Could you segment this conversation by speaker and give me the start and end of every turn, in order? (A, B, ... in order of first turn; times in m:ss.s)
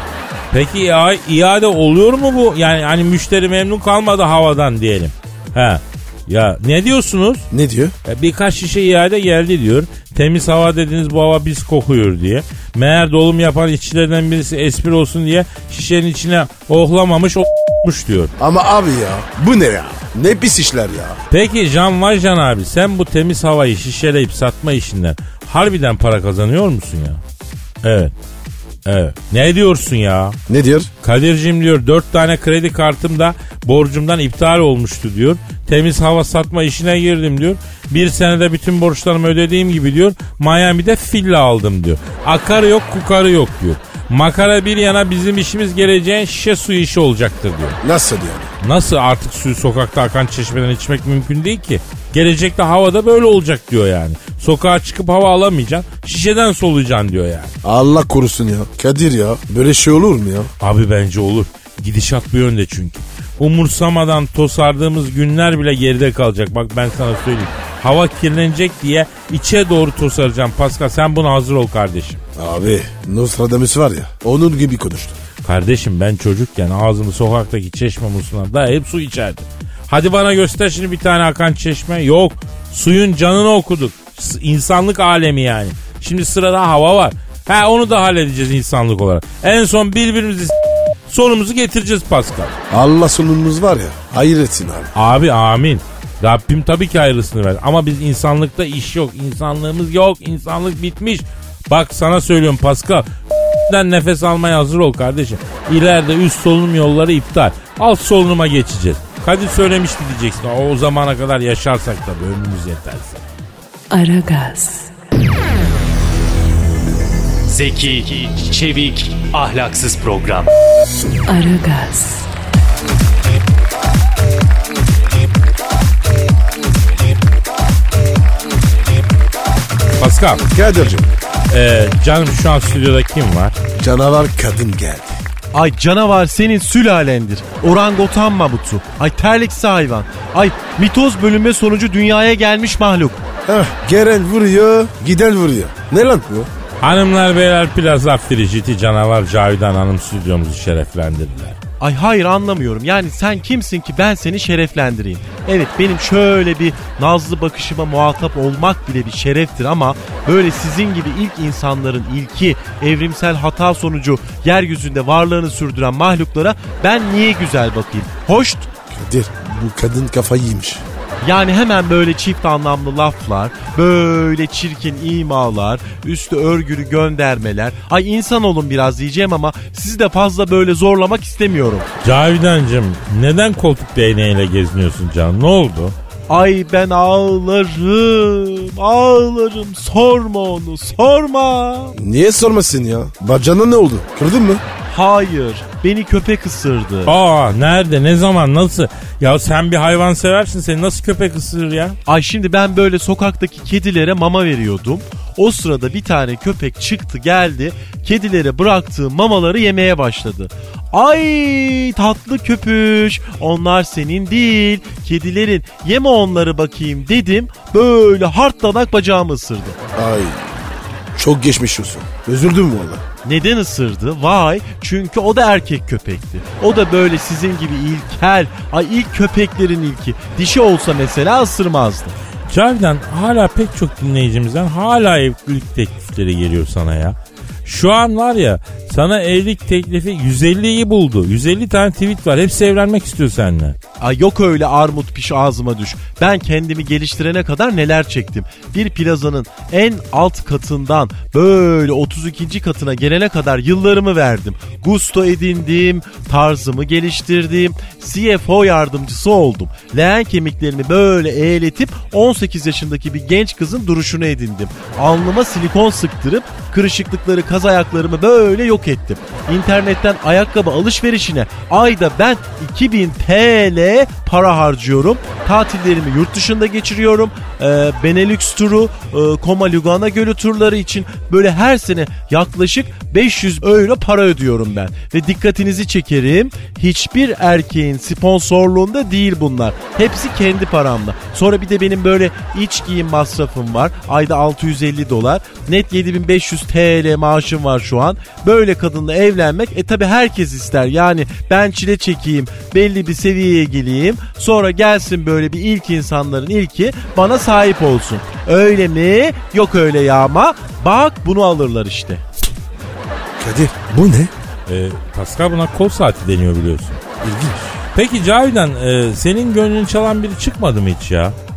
0:00.5-0:07.4 A
0:07.5-0:07.9 B
0:08.1-0:18.3 A
0:18.4-0:21.2 B
0:21.3-0:27.2 A
0:27.8-0:28.1 A
0:28.9-0:30.4 A
0:30.5-0:30.9 B
0:31.0-0:47.8 A
0:47.8-0:48.5 B
0:48.6-0:57.5 A
0:57.6-1:00.5 B
1:00.6-1:12.2 A
1:12.4-1:15.2 B
1:15.4-1:30.5 A
1:31.1-1:32.5 A
1:32.7-1:34.9 B
1:35.0-1:43.1 A
1:43.7-1:53.2 A
1:53.9-1:54.9 C
1:57.5-2:00.5 D
2:01.3-2:02.2 C
2:10.0-2:10.4 A
2:10.5-2:11.1 B
2:11.5-2:13.6 A
2:13.8-2:15.2 B
2:15.5-2:23.2 E
2:23.5-2:26.5 B
2:26.8-2:31.6 A
2:31.8-2:48.7 E
2:48.9-2:50.8 B
2:51.2-3:01.9 E
3:02.0-3:06.0 A
3:06.3-3:12.0 E
3:12.0-3:14.6 B
3:14.9-3:17.1 E
3:17.1-3:22.0 A
3:22.1-3:39.8 E
3:40.0-3:43.0 B
3:43.2-3:52.2 E
3:52.5-4:03.8 A
4:04.0-5:12.2 E
5:13.4-5:14.3 B
5:14.7-5:17.0 A
5:17.2-5:17.7 B
5:18.0-5:21.4 A